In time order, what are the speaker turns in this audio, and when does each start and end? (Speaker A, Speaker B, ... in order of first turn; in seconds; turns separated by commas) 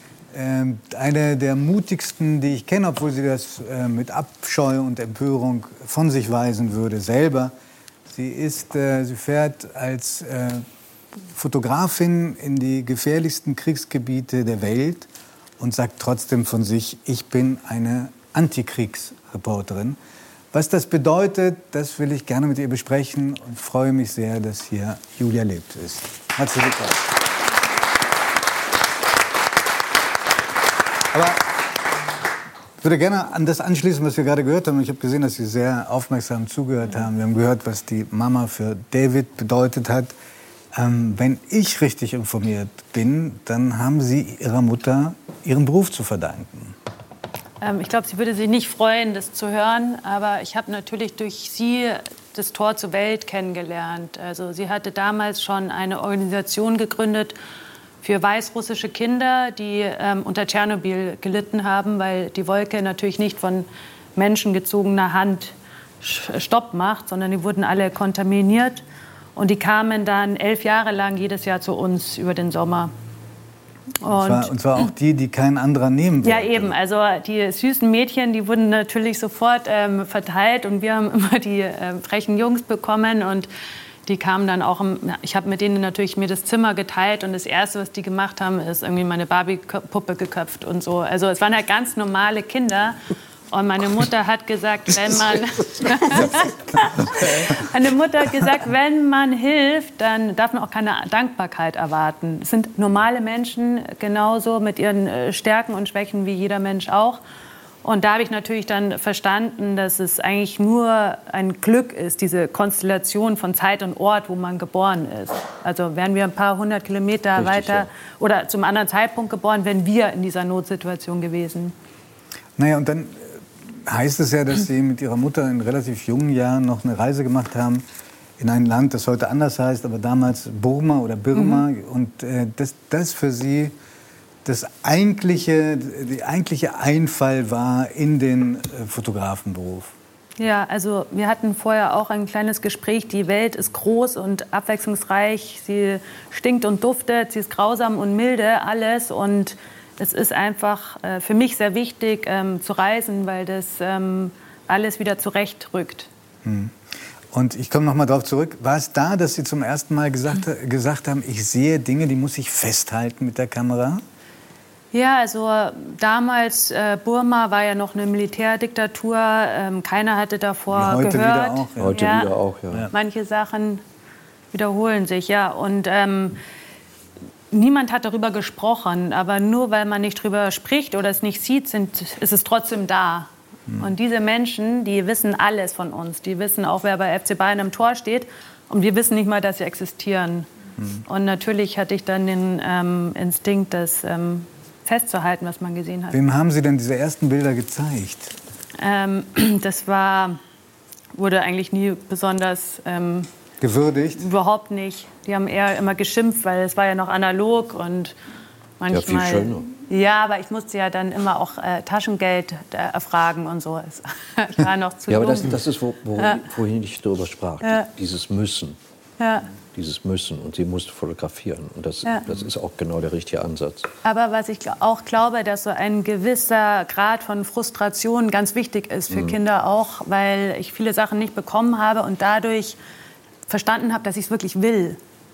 Speaker A: 0.3-7.5, Speaker A: 8.1-10.6, Speaker A: 11.3-15.1, Speaker A: 15.6-20.0, Speaker A: 20.5-27.1, Speaker A: 31.1-31.5, Speaker A: 32.8-40.2, Speaker A: 40.7-46.8, Speaker B: 47.6-57.4, Speaker B: 58.0-68.8, Speaker B: 69.3-72.9, Speaker B: 74.0-74.9, Speaker A: 74.1-76.7, Speaker B: 76.2-83.5, Speaker B: 84.1-93.0, Speaker B: 93.5-107.2, Speaker B: 107.8-121.7, Speaker C: 117.3-117.9, Speaker A: 122.6-123.3, Speaker A: 123.9-127.8, Speaker A: 128.4-133.7, Speaker B: 131.3-131.6, Speaker A: 134.4-139.9, Speaker B: 140.4-156.1, Speaker A: 156.4-156.7, Speaker A: 157.3-164.0, Speaker B: 164.9-172.3, Speaker A: 170.7-172.0, Speaker C: 171.8-172.9, Speaker B: 172.9-173.8, Speaker B: 174.5-176.4, Speaker B: 177.5-190.5, Speaker B: 191.1-196.2, Speaker A: 196.1-198.3, Speaker B: 198.8-200.4, Speaker B: 201.1-203.3, Speaker A: 203.6-204.2, Speaker B: 204.2-208.2, Speaker B: 208.8-215.6, Speaker C: 208.9-209.7, Speaker C: 215.1-218.8, Speaker B: 217.6-217.9, Speaker B: 219.2-219.5, Speaker C: 219.7-223.9, Speaker B: 224.0-232.8, Speaker C: 229.1-229.3, Speaker B: 233.5-235.0